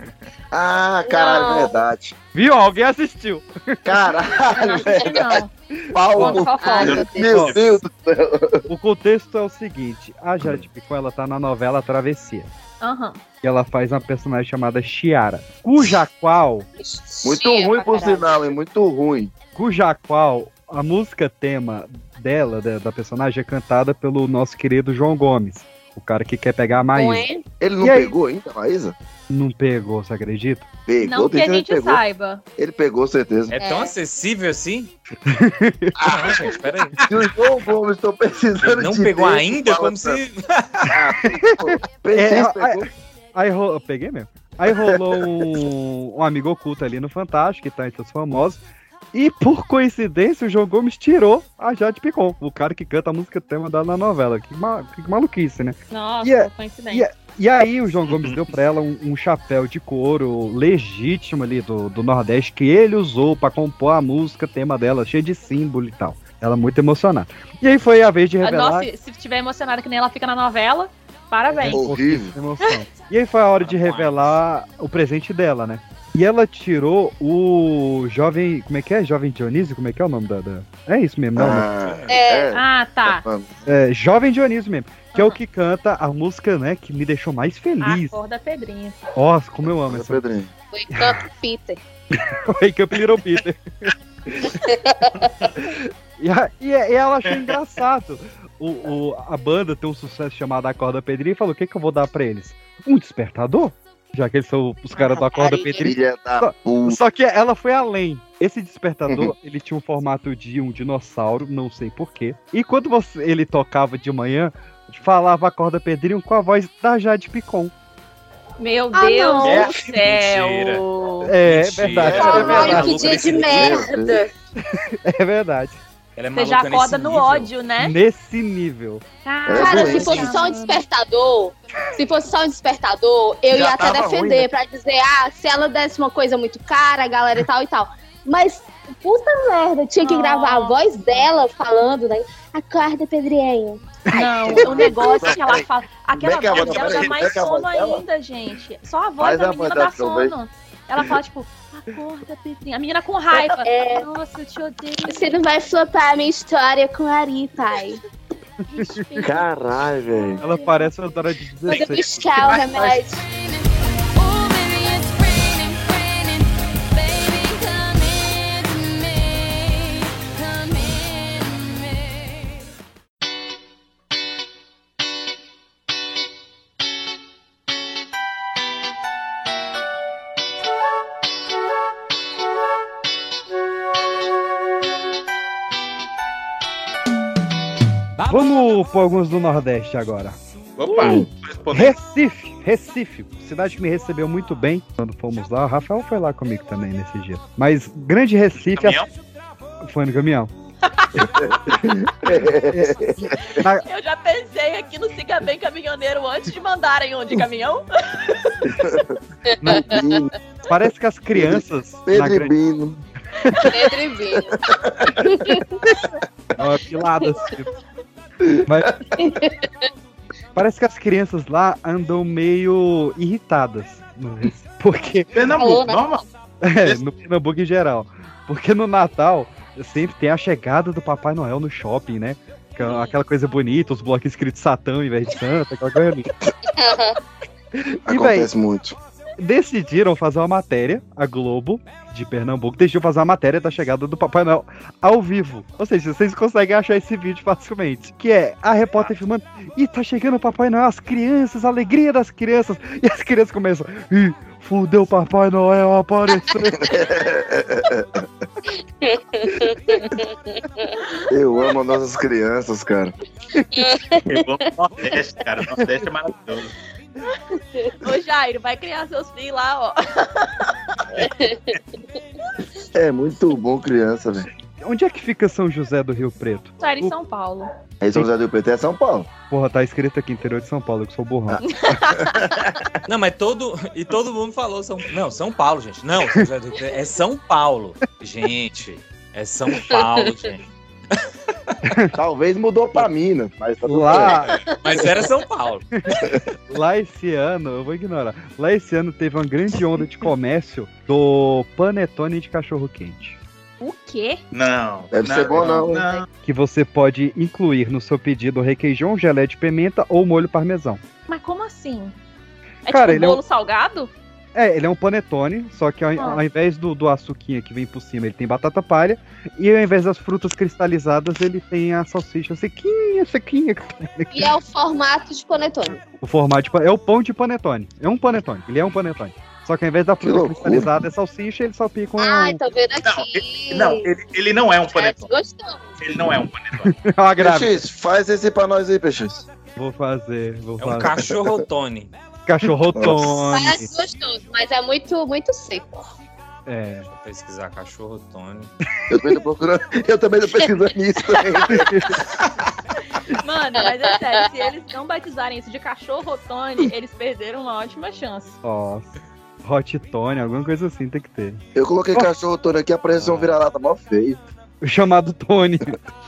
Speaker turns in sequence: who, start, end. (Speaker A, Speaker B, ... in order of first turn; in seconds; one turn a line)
Speaker A: 0.5-2.1
Speaker B: 1.0-1.8
Speaker C: 2.3-4.1
Speaker A: 3.9-5.4
Speaker D: 4.5-5.5
Speaker A: 5.9-8.7
Speaker C: 6.0-6.5
Speaker D: 6.1-7.2
Speaker B: 6.6-7.5
Speaker E: 6.8-7.6
Speaker C: 7.2-7.6
Speaker C: 8.7-12.5
Speaker D: 12.8-13.2
Speaker C: 13.4-16.7
Speaker B: 16.8-18.5
Speaker A: 17.2-19.3
Speaker C: 19.5-27.3
Speaker B: 26.9-27.4
Speaker A: 27.6-28.9
Speaker C: 27.8-28.1
Speaker C: 29.3-30.7
Speaker A: 30.9-32.0
Speaker D: 31.0-32.4
Speaker A: 32.6-33.5
Speaker F: 33.5-34.9
Speaker B: 33.6-33.9
Speaker C: 35.2-36.1
Speaker A: 36.0-36.5
Speaker F: 36.0-37.0
Speaker A: 37.1-40.2
Speaker F: 38.6-40.9
Speaker A: 40.9-42.9
Speaker C: 41.2-48.6
Speaker A: 44.7-45.2
Speaker C: 49.1-68.9
Speaker D: 55.9-57.0
Speaker D: 68.4-71.8
Speaker C: 71.5-81.7
Speaker A: 71.7-72.3
Speaker F: 73.6-74.4
Speaker A: 81.3-83.7
Speaker F: 81.8-82.2
Speaker B: 82.1-82.5
Speaker D: 82.5-83.2
Speaker C: 83.7-88.2
Speaker D: 87.8-89.0
Speaker C: 89.2-90.2
Speaker A: 89.8-90.5
Speaker B: 90.7-91.8
Speaker C: 92.3-94.5
Speaker B: 94.7-95.2
Speaker C: 95.6-117.7
Speaker B: 105.0-105.9
Speaker A: 105.8-107.0
Speaker D: 118.6-121.3
Speaker B: 118.9-119.7
Speaker E: 119.4-119.8
Speaker F: 119.8-120.8
Speaker C: 121.2-123.2
Speaker F: 121.4-123.8
Speaker A: 121.9-124.2
Speaker B: 122.1-124.3
Speaker D: 122.3-122.7
Speaker C: 124.7-125.8
Speaker F: 126.2-127.5
Speaker D: 126.3-127.9
Speaker C: 127.8-129.0
Speaker D: 129.2-130.8
Speaker A: 129.4-130.4
Speaker B: 129.5-143.8
Speaker A: 133.5-134.5
Speaker D: 140.0-140.8
Speaker C: 144.1-144.5
Speaker D: 144.1-155.4
Speaker A: 144.3-148.0
Speaker E: 146.5-147.4
Speaker A: 149.2-150.3
Speaker B: 153.3-154.1
Speaker B: 155.1-158.0
Speaker D: 158.7-160.9
Speaker C: 158.8-159.1
Speaker A: 159.2-160.4
Speaker C: 160.4-162.8
Speaker B: 161.7-163.2
Speaker D: 163.2-163.6
Speaker D: 164.1-172.4
Speaker C: 188.2-190.4
Speaker E: 190.8-192.0
Speaker C: 191.7-199.0
Speaker E: 198.7-199.1
Speaker C: 199.8-200.5
Speaker A: 201.2-203.3
Speaker C: 202.7-203.8
Speaker D: 203.8-208.5
Speaker C: 209.6-210.0
Speaker B: 209.7-210.2
Speaker A: 209.7-210.3
Speaker C: 210.7-212.5
Speaker A: 211.3-213.0
Speaker C: 213.4-213.7
Speaker B: 213.6-214.6
Speaker A: 214.7-215.1
Speaker B: 215.2-215.8
Speaker C: 216.6-217.7
Speaker A: 218.4-218.9
Speaker C: 218.7-218.9
Speaker B: 219.2-219.9
Speaker C: 220.5-225.3
Speaker E: 225.3-226.2
Speaker B: 225.5-226.0
Speaker C: 226.6-236.3
Speaker D: 232.8-233.1
Speaker B: 236.7-237.2
Speaker C: 237.8-238.5
Speaker A: 238.1-238.9
Speaker C: 239.4-256.9
Speaker A: 256.7-258.1
Speaker B: 259.0-261.0
Speaker A: 261.3-263.1
Speaker B: 263.7-264.5
Speaker E: 264.3-266.7
Speaker D: 268.0-270.7
Speaker B: 271.2-271.8
Speaker A: 272.9-274.5
Speaker C: 274.8-277.1
Speaker D: 276.8-277.7
Speaker A: 278.0-279.3
Speaker C: 279.5-281.6
Speaker D: 281.6-282.5
Speaker F: 283.1-290.7
Speaker C: 291.9-292.1
Speaker A: 292.1-294.5
Speaker C: 293.8-294.5
Speaker F: 294.8-295.8
Speaker C: 296.7-303.4
Speaker D: 303.8-304.4
Speaker E: 304.5-306.2
Speaker A: 305.1-306.0
Speaker C: 306.4-311.0
Speaker D: 311.3-312.1
Speaker D: 312.9-314.1
Speaker C: 312.9-313.4
Speaker C: 314.5-324.5
Speaker B: 324.3-326.0
Speaker C: 326.2-332.6
Speaker A: 330.2-330.9
Speaker B: 332.2-334.1
Speaker E: 333.0-335.3
Speaker B: 334.9-335.9
Speaker E: 336.0-336.9
Speaker C: 336.8-337.8
Speaker A: 337.4-339.4
Speaker C: 339.8-341.3
Speaker F: 340.8-342.1
Speaker C: 342.5-343.9
Speaker A: 342.9-343.4
Speaker B: 343.5-346.1
Speaker C: 346.6-347.1
Speaker F: 347.1-348.7
Speaker A: 349.1-352.0
Speaker C: 351.7-352.2
Speaker D: 353.1-358.6
Speaker C: 358.6-359.1
Speaker C: 359.6-361.6
Speaker A: 361.7-364.4
Speaker F: 363.1-363.5
Speaker C: 364.8-366.0